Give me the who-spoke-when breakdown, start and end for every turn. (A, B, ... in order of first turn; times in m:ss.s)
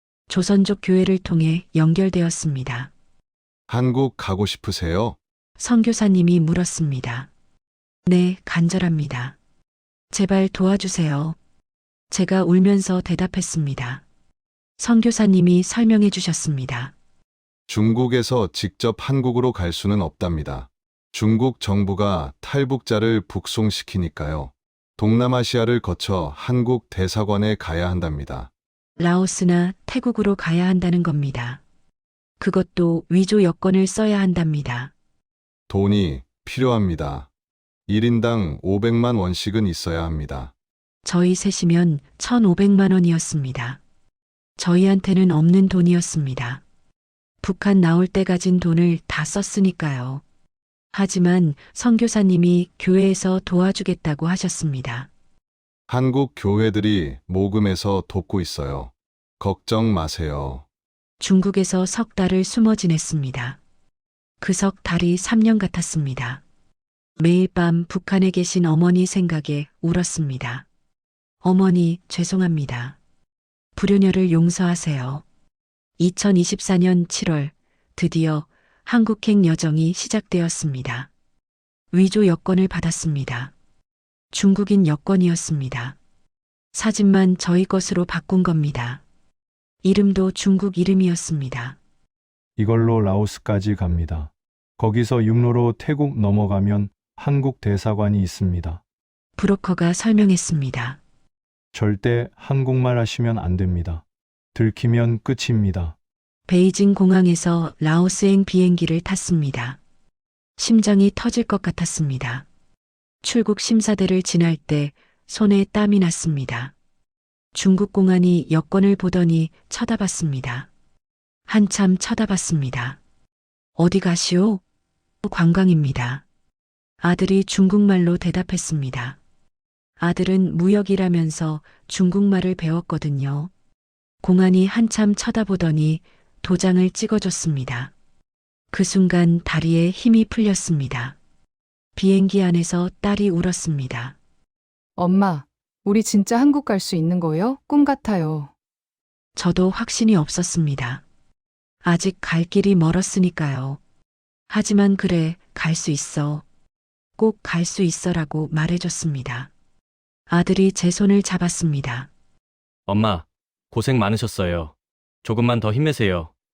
0:00.3-0:02.9 A
0:03.7-0:05.2 B
0:05.6-0:07.3 A
0:08.0-0:09.4 A
0:10.1-0:11.4 A
0:12.1-0:14.0 A
0:14.8-0:16.9 A
0:17.7-0:28.5 B
0:29.0-0:31.6 A
0:32.4-0:34.9 A
0:35.7-0:37.3 B
0:37.9-0:40.5 B
0:41.0-0:43.8 A
0:44.6-0:46.6 A
0:47.4-0:50.2 A
0:50.9-0:55.1 A
0:55.9-1:00.6 B
1:01.2-1:03.6 A
1:04.4-1:06.4 A
1:07.2-1:10.6 A
1:11.4-1:13.0 A
1:13.8-1:15.2 A
1:16.0-1:21.1 A
1:21.9-1:23.5 A
1:24.3-1:26.0 A
1:26.7-1:29.0 A
1:29.8-1:31.8 A
1:32.6-1:38.8 C
1:39.4-1:41.0 A
1:41.7-1:44.0 C
1:44.5-1:46.0 C
1:46.5-1:49.8 A
1:50.6-1:52.4 A
1:53.2-1:56.7 A
1:57.5-2:00.7 A
2:01.5-2:03.0 A
2:03.8-2:04.6 A
2:05.2-2:06.2 A
2:07.0-2:09.2 A
2:10.0-2:13.5 A
2:14.2-2:17.9 A
2:18.7-2:21.2 A
2:22.0-2:24.2 A
2:25.0-2:28.5 D
2:29.4-2:31.0 A
2:31.8-2:33.8 A
2:34.5-2:36.4 A
2:37.2-2:39.5 A
2:40.3-2:42.1 A
2:42.9-2:46.3 E